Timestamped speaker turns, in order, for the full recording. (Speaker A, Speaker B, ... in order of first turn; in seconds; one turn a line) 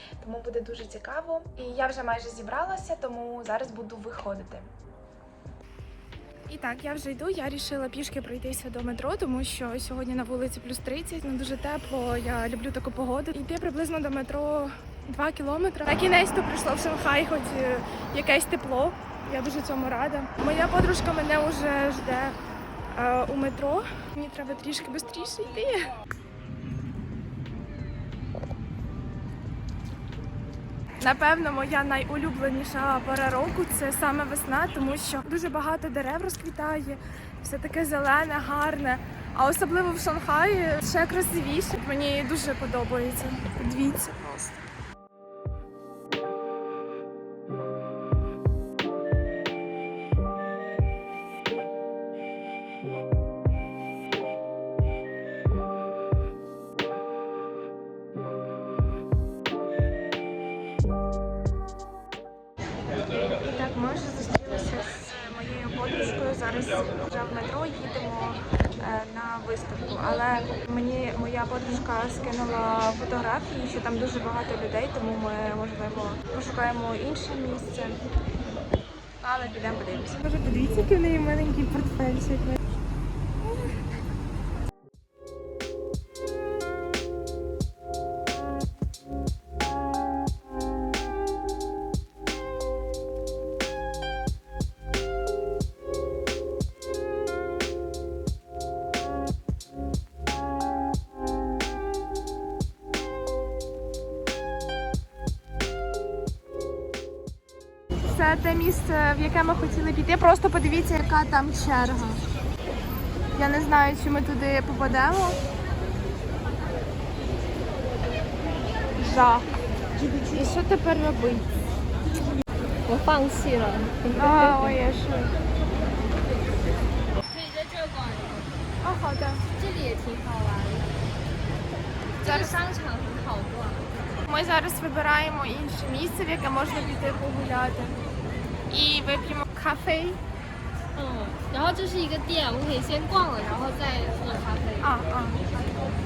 Speaker A: 0.2-4.7
Speaker A: 6.5-22.4
Speaker A: 22.9-25.9
Speaker A: 31.0-44.6
Speaker A: 63.4-78.0
Speaker A: 79.2-82.6
Speaker A: 108.0-112.2
Speaker A: 113.3-115.4
Speaker A: 119.0-121.5
Speaker B: 122.9-124.8
Speaker A: 124.1-125.3
Speaker B: 127.2-128.5
Speaker A: 128.8-129.4
Speaker B: 129.6-130.9
Speaker B: 132.2-133.9
Speaker A: 132.2-132.6
Speaker A: 134.3-138.0
Speaker A: 138.7-140.2
Speaker B: 140.9-144.9
Speaker A: 144.8-145.4